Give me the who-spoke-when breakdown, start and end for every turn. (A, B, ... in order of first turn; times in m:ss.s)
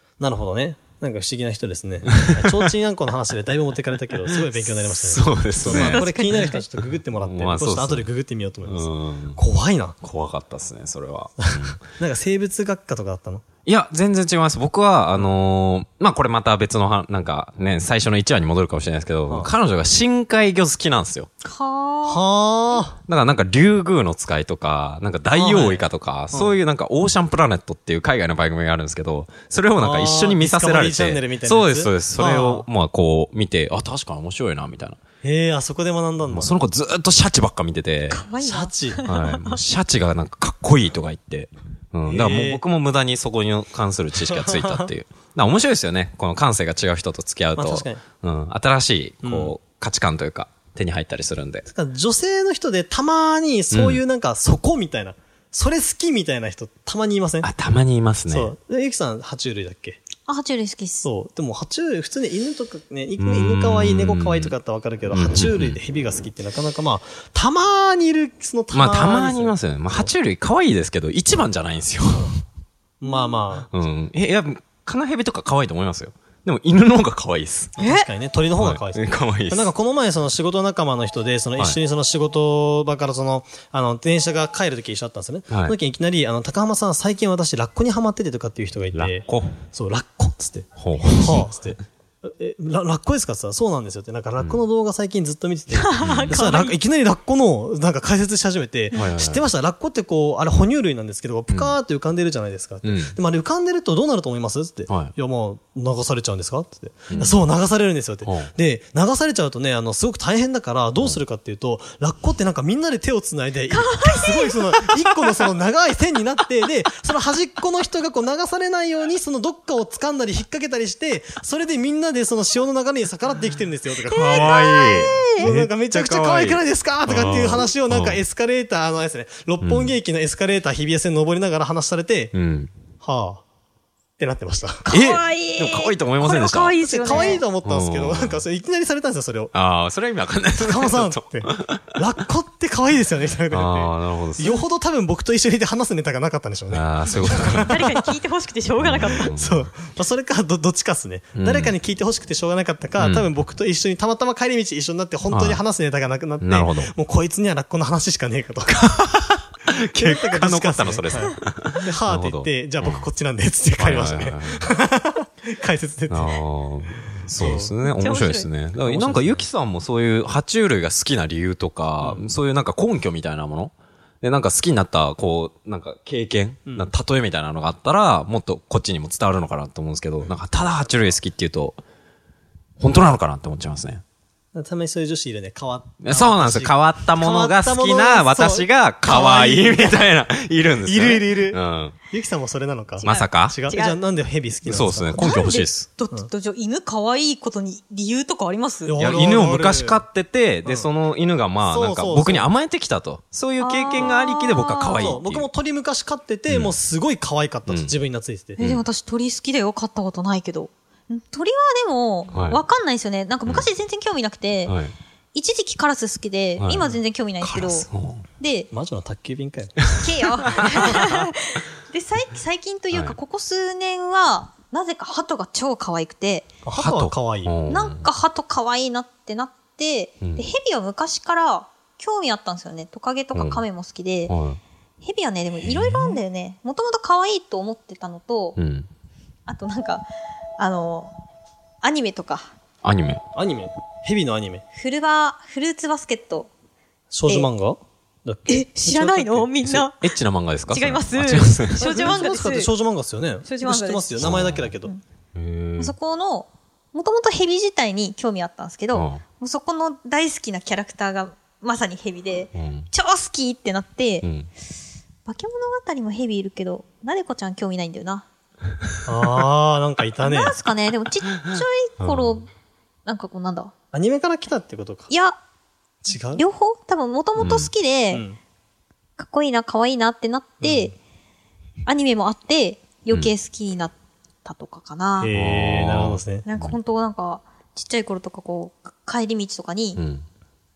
0:00.2-0:10.0 A
0:02.1-0:02.6 B
0:05.0-0:06.5 B
0:06.0-0:06.6 C
0:07.2-0:08.1 B
0:08.6-0:09.4 B
0:10.0-0:11.8 B
0:11.5-0:13.4 A
0:13.7-0:21.3 B
0:21.4-0:22.8 C
0:22.0-0:23.0 A
0:23.1-0:35.0 B
0:25.3-0:26.6 A
0:29.8-0:32.7 A
0:35.2-0:36.5 A
0:36.3-0:38.3 B
0:38.1-0:39.6 C
0:38.4-0:39.0 A
0:39.0-0:51.7 B
0:42.0-0:42.6 A
0:44.2-0:44.9 A
0:47.6-0:48.0 A
0:49.2-0:49.5 A
0:51.7-0:57.5 A
0:53.7-0:54.0 B
0:57.4-0:58.5 B
0:58.3-1:00.0 A
1:00.3-1:01.1 C
1:01.0-1:10.1 A
1:03.2-1:04.5 B
1:05.1-1:05.8 B
1:08.7-1:12.4 B
1:13.0-1:13.7 A
1:13.1-1:13.4 C
1:13.7-1:17.8 B
1:17.8-2:12.3 A
1:17.8-1:18.1 C
1:18.6-1:19.7 B
1:25.5-1:25.8 B
1:28.9-1:29.6 B
1:30.8-1:31.6 B
1:35.7-1:36.8 C
1:36.0-1:36.4 B
1:38.9-1:39.4 B
1:41.5-1:41.8 B
1:42.8-1:43.2 B
1:44.9-1:45.1 B
1:48.2-1:48.5 B
1:53.7-1:55.1 C
2:04.1-2:05.5 C
2:04.2-2:08.2 B
2:09.6-2:10.0 B
2:12.3-2:12.8 B
2:13.0-2:13.4 A
2:14.2-2:14.9 A
2:14.9-2:17.4 C
2:14.9-2:16.8 B
2:16.8-2:19.5 A
2:17.6-2:18.4 B
2:19.5-2:22.0 B
2:20.6-2:28.0 A
2:23.5-2:24.6 B
2:26.7-2:27.8 B
2:27.5-2:29.3 C
2:28.8-2:29.7 B
2:29.1-2:38.8 A
2:31.4-2:31.8 B
2:33.0-2:33.3 B
2:35.3-2:35.6 B
2:36.4-2:36.9 B
2:38.7-2:43.0 B
2:40.0-2:46.4 A
2:43.8-2:44.7 B
2:46.1-3:01.8 B
2:47.4-2:47.8 A
2:47.8-2:48.5 C
2:48.8-2:49.5 A
2:52.0-2:52.3 A
3:02.8-3:04.0 B
3:04.6-3:10.1 A
3:06.0-3:12.0 B
3:10.8-3:15.5 A
3:13.0-3:14.0 C
3:13.0-3:13.6 B
3:14.7-3:15.9 B
3:15.2-3:19.0 C
3:18.8-3:20.0 A
3:19.0-3:25.5 B
3:20.6-3:20.9 A
3:21.6-3:22.5 A
3:23.6-3:25.2 C
3:24.9-3:28.6 A
3:26.5-3:26.8 B
3:27.7-3:27.9 B
3:28.6-3:34.8 C
3:28.6-3:28.8 B
3:32.3-3:32.6 B
3:34.7-3:35.0 B
3:35.3-3:37.9 C
3:36.6-3:36.9 B
3:37.4-3:38.2 B
3:38.4-3:38.7 C
3:38.7-3:39.9 A
3:40.0-3:46.5 C
3:42.9-3:43.2 B
3:46.6-3:47.6 A
3:46.8-3:48.1 B
3:47.7-3:54.4 C
3:50.2-3:50.5 B
3:53.3-3:53.6 B
3:54.3-3:54.6 B
3:55.0-3:58.6 C
3:55.7-3:56.1 B
3:58.6-3:58.9 B
3:59.5-4:00.0 C
4:00.6-4:01.1 C
4:01.8-4:02.5 C
4:02.8-4:03.2 B
4:03.4-4:04.6 A
4:04.7-4:06.5 C
4:07.1-4:09.9 A
4:08.5-4:10.2 C
4:09.9-4:11.9 B
4:10.7-4:12.7 C
4:11.8-4:14.9 A
4:13.4-4:15.0 C
4:14.2-4:14.7 B
4:15.4-4:16.0 B
4:15.8-4:24.3 C
4:18.9-4:19.2 B
4:22.6-4:22.9 B
4:24.2-4:24.5 B
4:25.3-4:28.3 C
4:29.1-4:30.6 A
4:30.2-4:32.5 C
4:31.5-4:32.4 B
4:33.0-4:33.7 C
4:33.9-4:35.1 A
4:35.1-4:35.4 C
4:36.0-4:36.4 A
4:36.3-4:38.3 C
4:37.4-4:37.7 B
4:38.1-4:38.4 A
4:39.2-4:41.0 C
4:41.9-4:45.3 C
4:45.2-4:46.5 A
4:45.3-4:46.8 B
4:46.4-4:50.0 C
4:50.0-4:50.2 B